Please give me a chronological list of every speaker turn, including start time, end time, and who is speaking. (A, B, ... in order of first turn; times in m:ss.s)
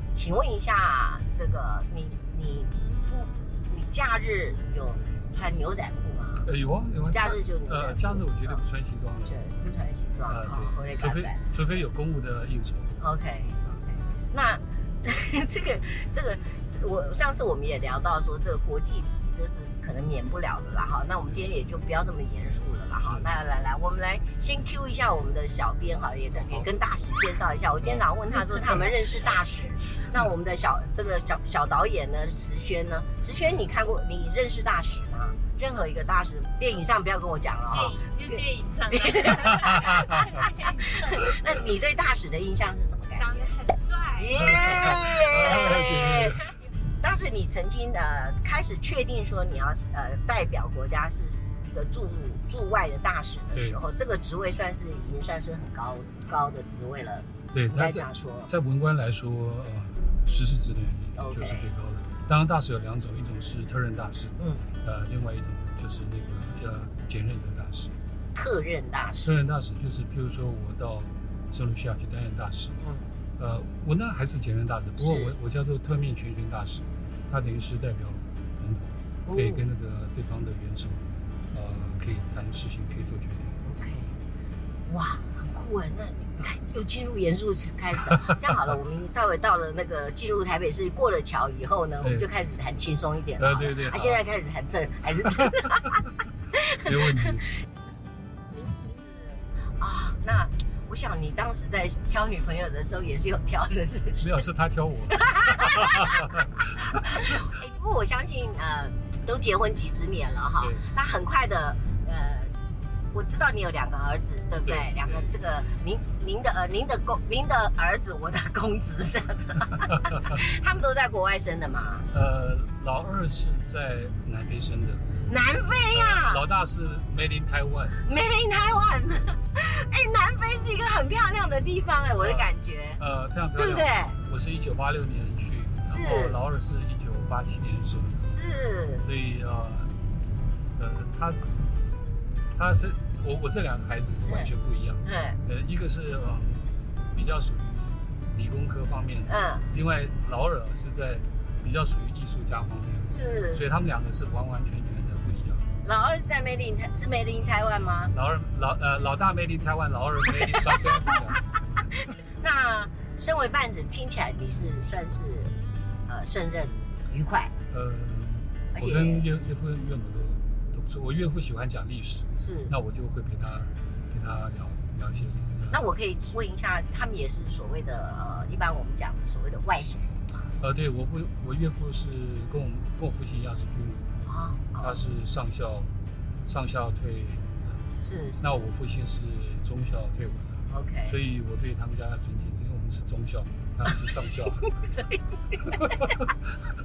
0:00.1-0:06.5 A
0:06.4-0:09.4 B
0:07.1-0:08.6 A
0:09.2-0:11.4 A
0:10.3-0:13.0 B
0:13.0-0:43.5 A
0:23.0-0:23.3 B
0:37.7-0:39.9 C
0:39.4-0:40.4 B
0:43.2-0:45.0 C
0:44.1-0:58.5 A
0:44.4-0:46.5 B
0:57.5-1:07.9 B
1:01.2-1:01.7 A
1:04.4-1:04.6 A
1:08.3-1:09.3 A
1:09.2-1:12.8 B
1:12.8-1:13.1 A
1:13.4-1:23.6 B
1:15.0-1:15.3 A
1:19.2-1:19.6 A
1:23.6-1:24.1 A
1:24.9-1:36.0 A
1:32.0-1:32.3 B
1:33.4-1:34.2 B
1:36.5-1:37.6 A
1:36.8-1:37.4 B
1:38.5-1:44.5 A
1:44.2-1:47.4 B
1:45.1-1:52.5 A
1:50.6-1:50.8 B
1:53.1-2:02.1 A
1:54.6-1:55.3 B
2:02.1-2:05.1 B
2:05.3-2:06.4 A
2:05.9-2:08.0 B
2:08.0-2:13.0 A
2:12.2-2:18.3 B
2:13.6-2:14.2 A
2:15.9-2:16.4 A
2:18.2-2:19.1 A
2:19.0-2:19.9 B
2:20.8-2:21.6 B
2:22.5-2:35.7 B
2:24.2-2:24.5 A
2:25.0-2:25.4 A
2:29.2-2:29.7 A
2:33.0-2:33.6 A
2:35.8-2:38.1 A
2:38.1-2:41.4 B
2:40.4-2:41.2 A
2:41.9-2:47.5 A
2:47.7-2:55.8 B
2:48.7-2:49.2 A
2:52.4-2:52.7 A
2:55.7-3:00.4 A
3:00.6-3:04.1 B
3:04.2-3:05.0 A
3:04.8-3:05.9 B
3:06.4-3:07.8 B
3:08.0-3:08.4 A
3:08.4-3:14.7 B
3:10.7-3:11.2 A
3:14.6-3:16.2 A